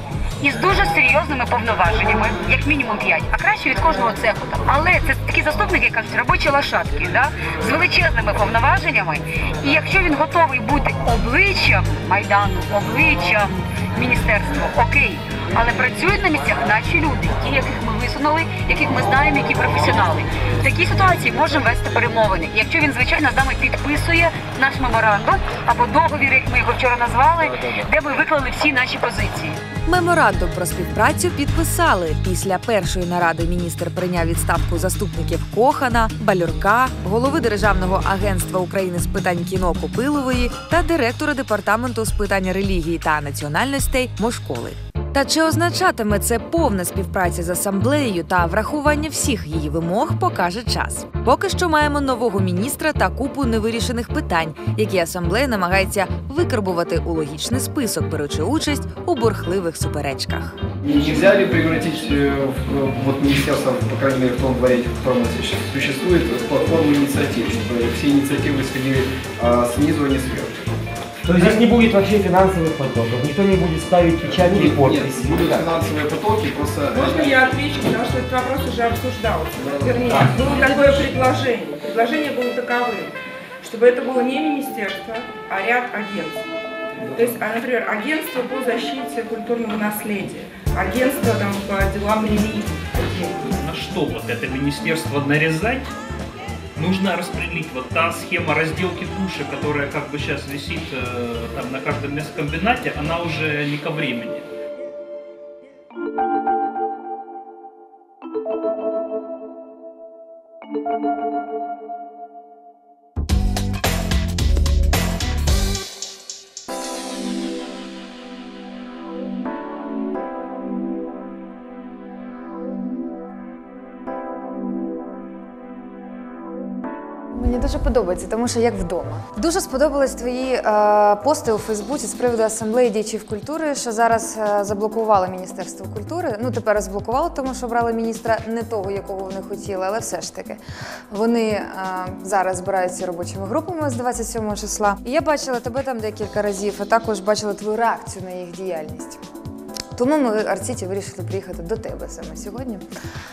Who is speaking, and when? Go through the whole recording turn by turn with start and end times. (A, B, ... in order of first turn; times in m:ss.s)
0:00.4-0:29.6 A
0:29.9-1:00.6 B
1:00.8-1:10.7 C
1:11.2-1:15.7 D
1:14.3-1:17.4 C
1:16.9-1:26.5 E
1:19.6-1:20.9 C
1:27.0-1:27.3 C
1:27.1-1:33.4 E
1:33.4-1:35.9 F
1:36.8-1:44.5 F
2:07.3-2:29.2 G
2:29.9-2:32.8 G